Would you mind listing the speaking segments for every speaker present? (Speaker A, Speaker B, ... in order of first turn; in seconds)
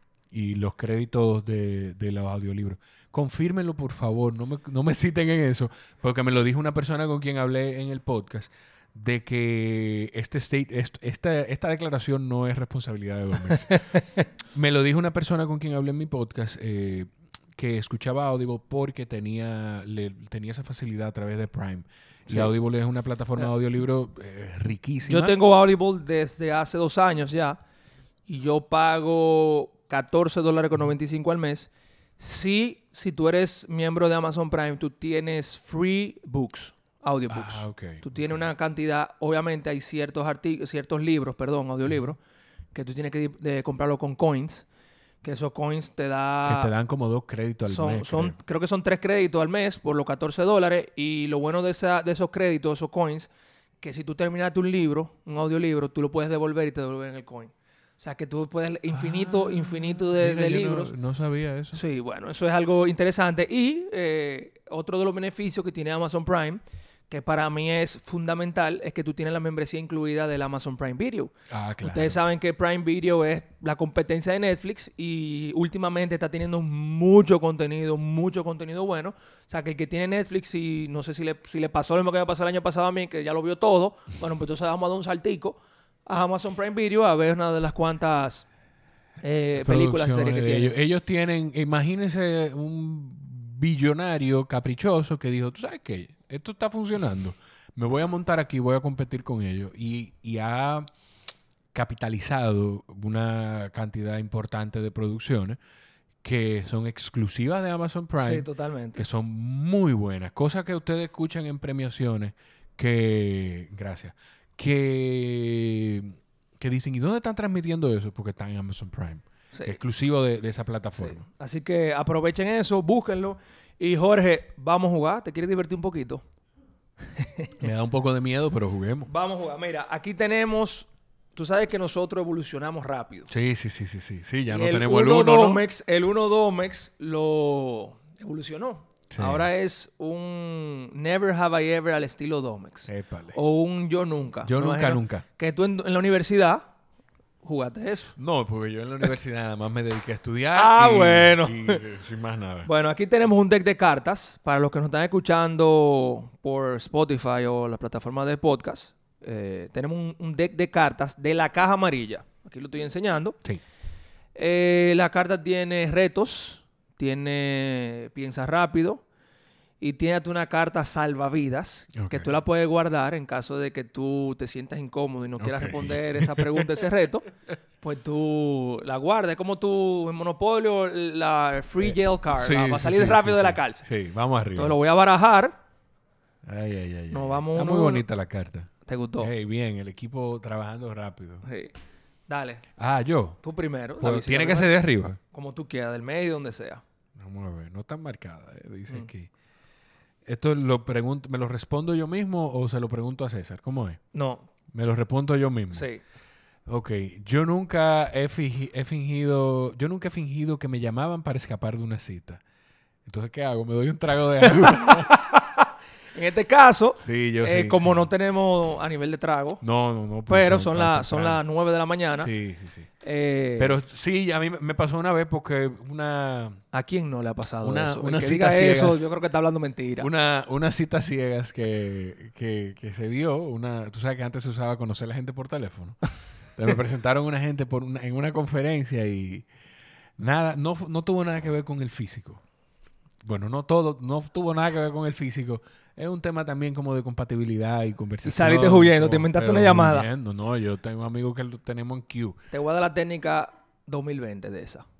Speaker A: 0.3-13.9, 14.5-25.4, 37.3-38.4, 46.4-48.4, 58.9-61.8, 71.5-72.2, 89.6-100.9, 101.7-105.6, 106.2-121.2, 127.6-129.1, 133.3-135.6, 139.1-139.5, 142.9-143.4, 144.4-145.2, 148.2-152.7, 171.9-172.3, 175.4-176.8, 181.8-184.8, 186.4-191.4, 192.8-193.4, 194.0-195.2, 197.2-199.3, 200.2-204.0, 204.7-205.9, 206.7-212.4, 213.1-215.1, 217.0-218.1, 219.6-221.4, 222.2-222.9, 223.6-226.6, 227.6-229.1, 230.0-239.5, 240.2-242.4, 243.2-252.4
Speaker B: 13.5-14.2, 22.3-22.5, 25.1-27.6, 28.3-42.2, 42.7-44.7, 45.2-46.7, 47.7-53.3, 53.8-60.9, 61.7-88.5, 89.2-90.7, 108.2-109.0, 121.0-126.2, 127.2-127.5, 129.1-133.3, 134.5-146.7, 147.4-148.1, 150.5-151.8, 152.6-163.4, 164.3-169.0, 169.8-177.3, 177.8-183.8, 184.6-185.6, 187.1-188.0, 188.8-189.3, 191.4-191.7, 192.3-192.6, 193.4-194.7, 195.3-196.8, 204.1-204.5, 205.7-206.0, 214.6-219.6, 220.3-222.3, 223.0-223.8, 226.7-230.1, 248.2-250.1, 252.5-254.9